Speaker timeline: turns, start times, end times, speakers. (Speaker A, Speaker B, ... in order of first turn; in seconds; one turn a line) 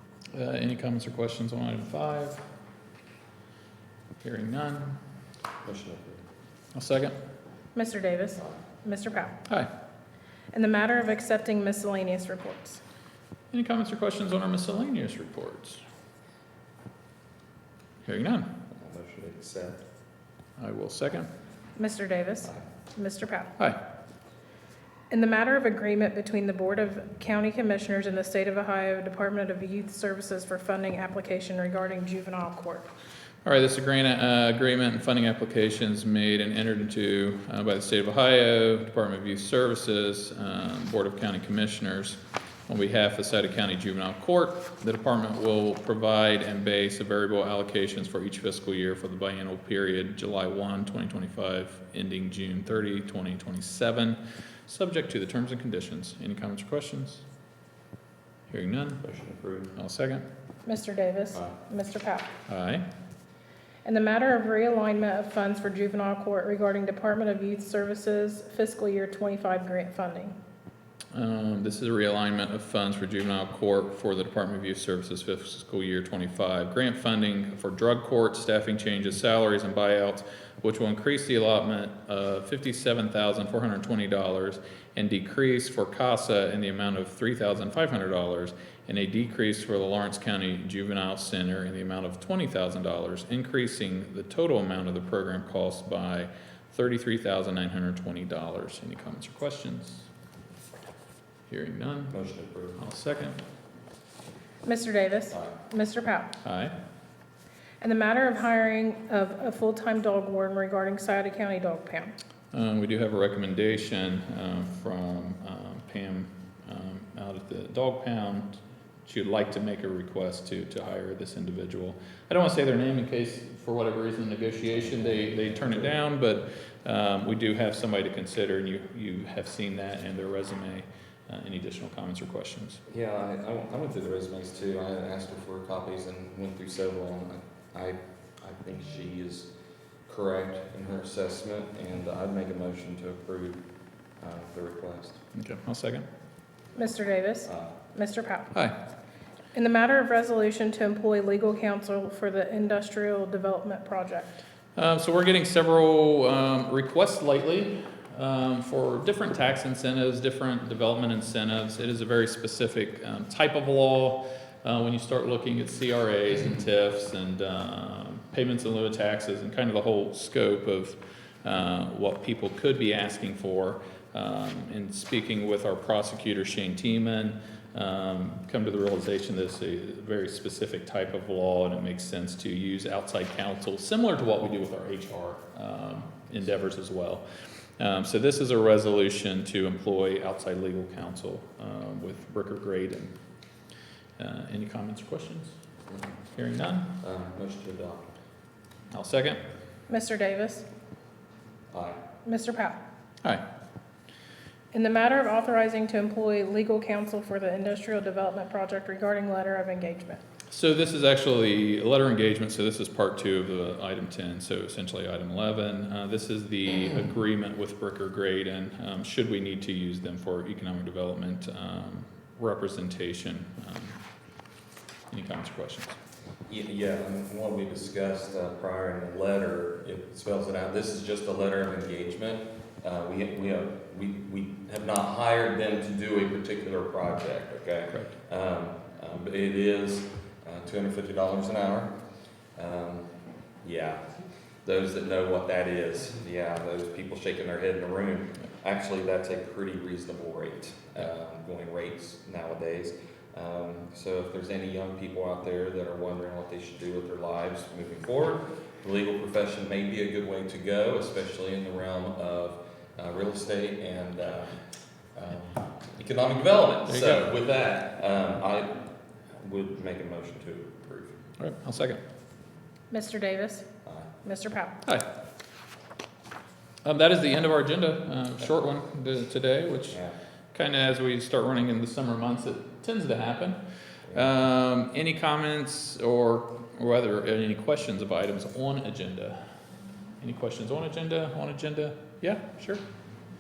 Speaker A: 0.3-2.4
Speaker A: 4.2-5.0
Speaker B: 5.6-6.2
Speaker A: 6.7-7.1
Speaker C: 7.7-9.4
Speaker C: 10.5-12.8
Speaker A: 13.5-15.8
Speaker A: 18.0-18.5
Speaker B: 18.7-19.8
Speaker A: 20.6-21.3
Speaker C: 21.8-23.5
Speaker C: 25.1-32.9
Speaker A: 33.4-57.2
Speaker A: 58.5-59.0
Speaker B: 59.0-59.7
Speaker A: 59.8-60.2
Speaker C: 60.6-62.3
Speaker A: 62.5-62.9
Speaker C: 63.8-70.3
Speaker A: 71.1-100.0
Speaker A: 101.5-102.1
Speaker B: 102.1-102.8
Speaker A: 102.8-103.4
Speaker C: 104.6-106.3
Speaker A: 106.4-106.7
Speaker C: 107.8-112.2
Speaker A: 112.5-132.8
Speaker B: 124.7-126.0
Speaker B: 132.9-139.5
Speaker B: 140.1-143.6
Speaker B: 144.2-145.2
Speaker A: 145.3-146.1
Speaker C: 146.8-148.5
Speaker B: 147.5-147.7
Speaker C: 149.5-154.4
Speaker A: 154.8-187.2
Speaker A: 187.8-193.1
Speaker A: 194.2-195.5
Speaker A: 196.3-197.0
Speaker B: 197.0-198.1
Speaker A: 198.9-199.4
Speaker C: 199.9-200.7
Speaker B: 201.7-202.0
Speaker C: 202.2-202.8
Speaker C: 204.7-210.2
Speaker A: 210.5-224.0
Speaker A: 225.1-225.9
Speaker B: 226.5-241.9
Speaker B: 242.6-243.1
Speaker B: 243.6-244.0
Speaker B: 244.6-264.5
Speaker B: 265.1-271.2
Speaker A: 266.9-267.3
Speaker A: 271.4-272.0
Speaker C: 272.9-273.7
Speaker B: 273.8-274.1
Speaker C: 274.2-274.8
Speaker A: 276.8-280.0
Speaker A: 280.5-283.6
Speaker A: 284.1-289.4
Speaker A: 290.2-292.8